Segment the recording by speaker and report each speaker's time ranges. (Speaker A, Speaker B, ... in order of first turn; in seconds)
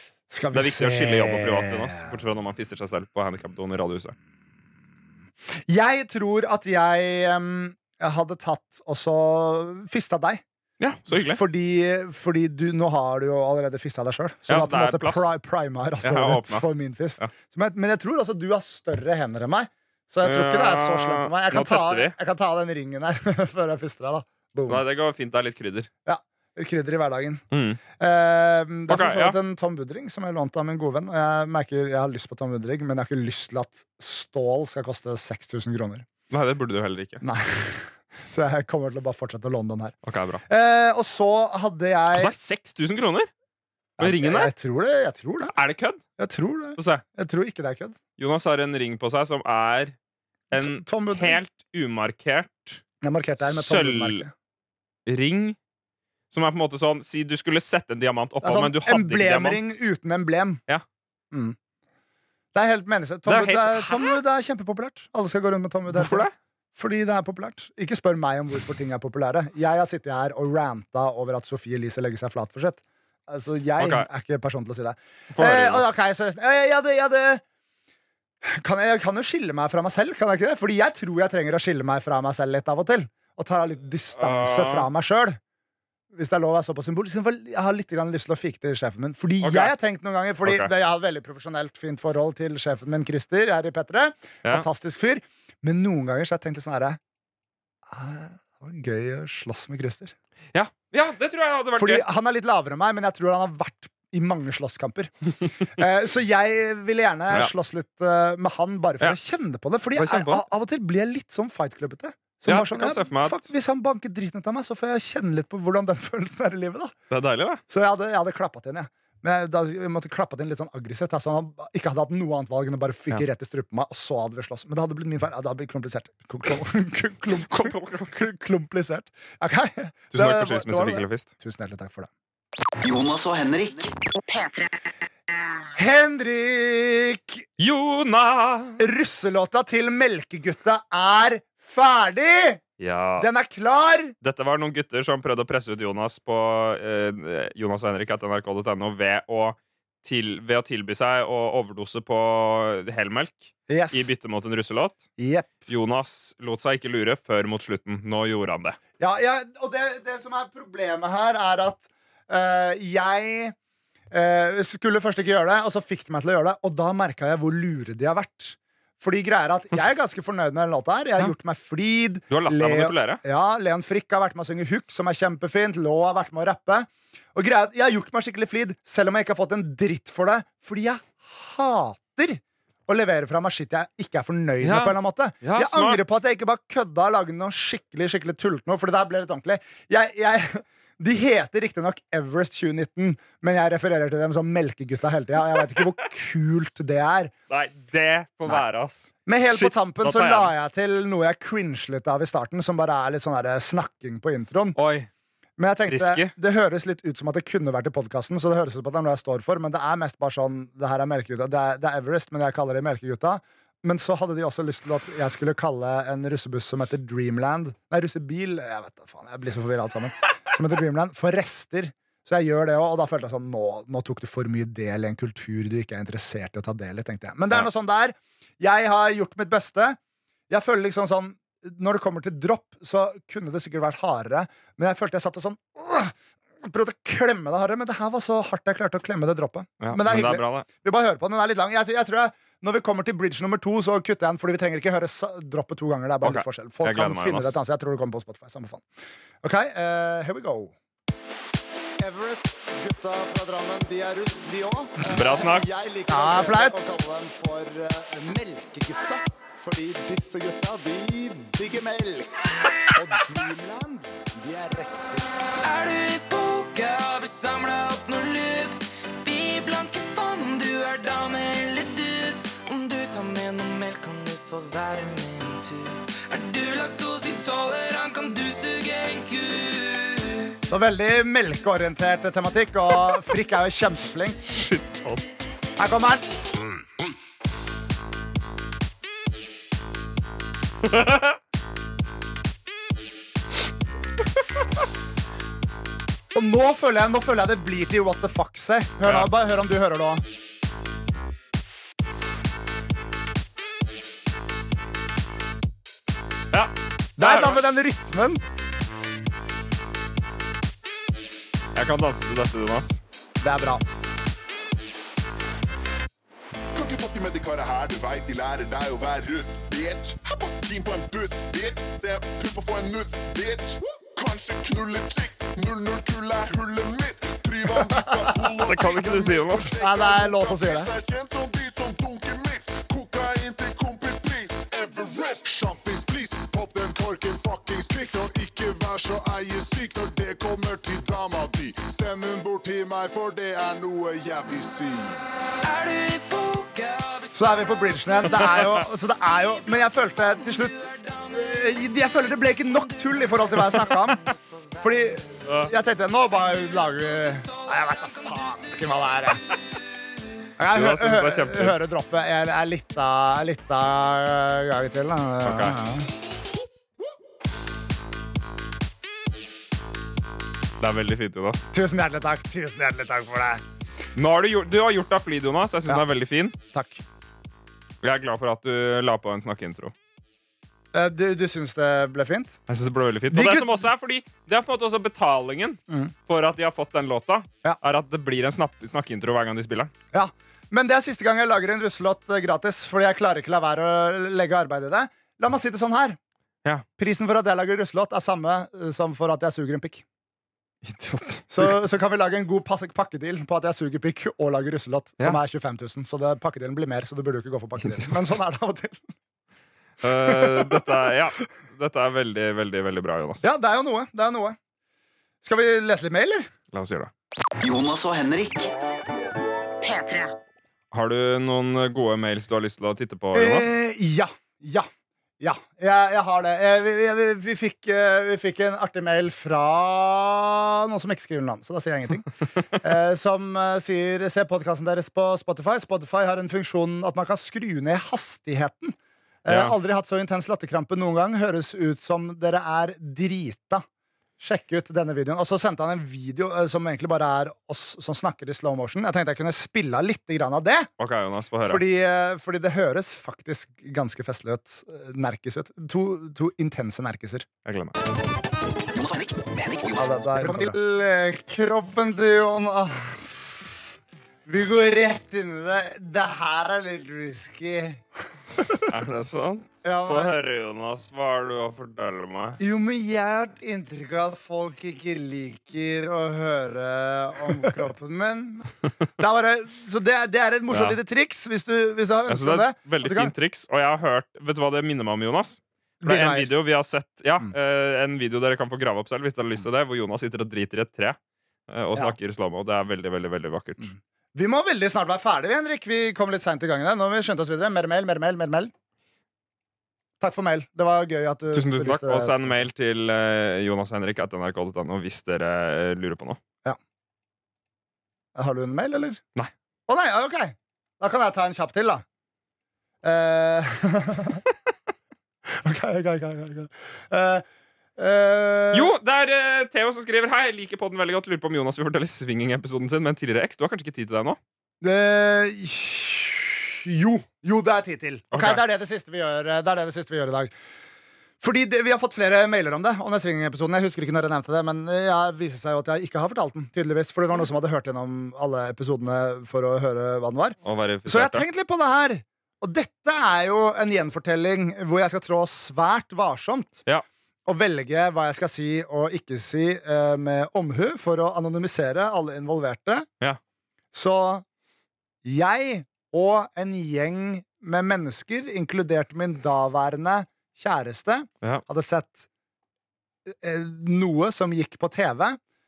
Speaker A: 0.3-2.1, 5.7-10.4, 11.1-24.8, 26.1-36.1, 37.2-42.3, 44.0-45.5, 46.2-48.0, 50.5-51.4, 53.0-54.3, 58.4-60.6, 61.3-61.6, 62.5-77.4, 78.4-85.4, 86.1-97.0, 97.9-100.2, 101.8-116.9, 117.7-132.1, 135.7-137.4, 138.8-142.6, 143.2-144.2, 153.7-154.1, 155.2-155.7, 159.0-163.6, 164.1-197.3, 199.3-204.8, 205.6-230.0, 230.5-248.8, 249.4-250.7, 252.0-265.3, 280.7-284.4, 285.8-286.3, 296.3-300.2, 307.2-308.4, 313.4-313.8, 328.7-328.9, 329.8-330.9, 347.3-354.2, 354.8-359.4, 360.6-366.1, 371.7-373.6, 376.7-377.0, 380.9-382.6, 383.3-383.8, 390.1-396.2, 397.0-400.1, 401.5-409.1, 410.2-411.1, 413.4-414.6, 415.4-416.5, 423.3-424.9, 425.4-443.9, 444.4-450.9, 451.6-457.5, 460.0-463.9, 464.4-468.0, 468.6-468.9, 469.8-470.3, 472.6-483.3, 486.0-486.5, 493.8-498.7, 500.2-502.6, 508.4-509.2, 509.9-512.0, 513.0-514.4, 515.5-517.5, 518.0-518.9, 524.8-530.5, 531.4-546.8, 547.5-553.1, 553.9-554.5, 555.2-562.2, 563.3-565.4
Speaker B: 0.5-4.2, 10.8-11.4, 14.5-15.3, 16.0-16.7, 20.2-22.1, 24.7-25.9, 27.5-27.8, 28.9-29.4, 36.3-37.2, 40.0-40.4, 42.1-43.3, 44.0-44.5, 45.5-46.0, 46.8-47.0, 48.2-50.0, 50.5-52.8, 53.4-54.2, 55.1-55.6, 56.3-59.6, 63.3-64.2, 65.9-66.3, 73.8-74.1, 75.3-75.9, 84.2-84.9, 89.4-89.7, 90.4-90.7, 100.5-102.0, 110.0-110.5, 112.5-113.5, 117.1-117.6, 127.3-128.2, 130.1-131.3, 137.6-138.9, 142.8-143.3, 144.2-155.0, 155.7-158.8, 172.3-173.2, 184.6-186.0, 197.5-200.5, 204.8-205.1, 205.9-206.3, 239.8-240.7, 246.2-247.6, 255.0-255.7, 284.5-285.4, 290.9-291.3, 299.0-299.3, 306.5-307.6, 311.8-313.0, 328.6-329.8, 348.4-348.8, 353.6-353.9, 355.4-355.7, 360.7-361.8, 365.4-365.8, 370.8-371.7, 374.1-376.6, 378.0-379.9, 382.7-389.9, 400.8-401.8, 407.8-408.4, 410.0-413.5, 416.7-417.1, 420.9-423.8, 439.5-439.8, 451.0-451.8, 457.6-458.0, 468.9-472.6, 480.7-481.0, 482.3-491.2, 491.7-493.9, 501.5-506.4, 518.7-524.4, 528.3-528.6, 540.6-541.5
Speaker C: 132.8-133.9, 417.6-418.7, 458.9-460.6
Speaker D: 265.6-280.6, 345.6-348.1, 350.4-351.8, 354.3-355.1, 357.2-359.2
Speaker E: 316.7-345.2